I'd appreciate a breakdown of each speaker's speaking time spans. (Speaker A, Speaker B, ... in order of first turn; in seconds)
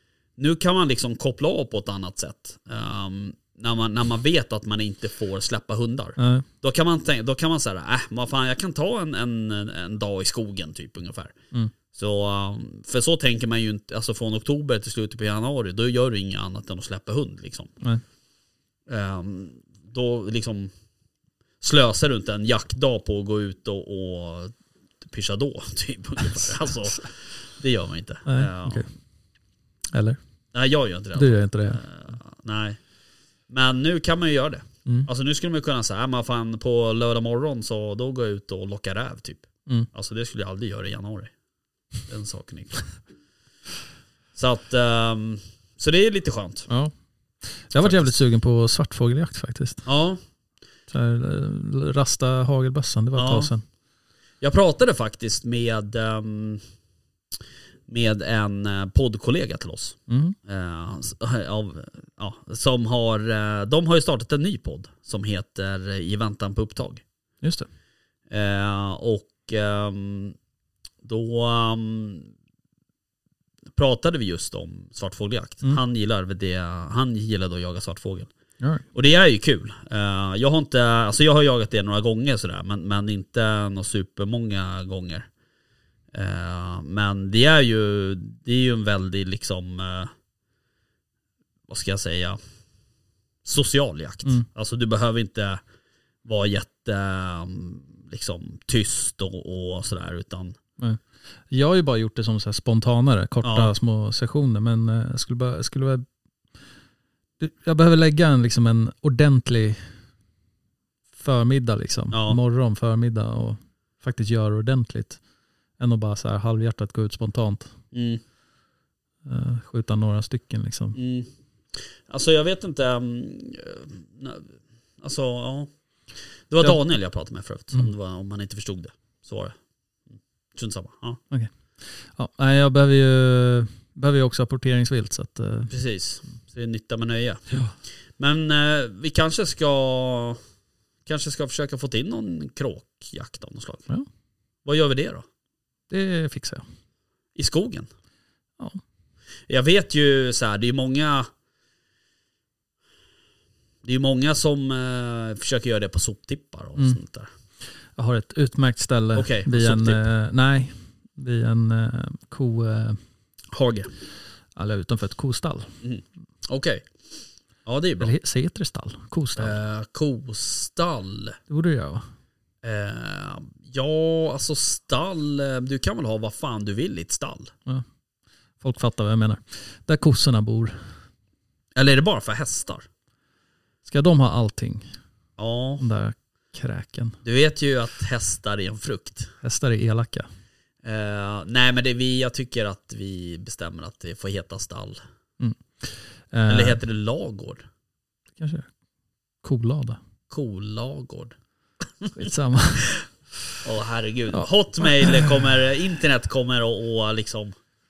Speaker A: 0.4-11.4, 11.9-17.7, 18.9-20.7, 21.6-28.9, 30.5-32.8, 33.5-41.3, 42.0-42.9, 44.4-46.7, 47.8-48.1, 49.9-50.2, 53.1-53.5, 54.4-56.6, 57.9-67.0, 68.3-70.4, 71.0-72.3, 73.8-78.3, 78.9-85.3, 86.1-90.1, 91.7-92.4, 93.5-95.6, 96.2-100.6, 103.4-103.7, 112.1-112.4, 117.9-118.2, 121.0-125.7, 126.5-129.6, 130.1-131.2, 135.7-137.5, 138.2-140.4, 141.1-143.9, 144.7-145.2, 147.4-147.9, 149.5-151.3, 153.8-157.3, 159.2-160.1, 163.5-163.9, 165.8-166.9, 167.7-168.1, 169.4-171.4, 172.6-177.5, 181.8-182.8, 185.4-185.8, 187.2-189.3, 190.8-195.0, 196.5-197.7, 200.3-201.3, 202.0-202.3, 203.6-207.5
Speaker B: 6.2-6.5, 28.3-28.9, 29.9-30.2, 31.2-31.8, 46.7-49.9, 50.9-53.6, 60.1-60.4, 67.4-67.7, 100.8-106.0, 107.4-109.9, 111.2-115.2, 115.8-117.8, 119.2-121.0, 131.3-135.7, 145.9-146.7, 158.0-163.0, 164.6-165.7, 168.0-169.6, 171.5-172.1, 178.6-180.9, 183.8-184.9, 185.8-187.2, 189.4-190.3, 195.4-196.8, 198.4-198.7, 199.4-200.0, 202.2-202.9, 204.3-205.4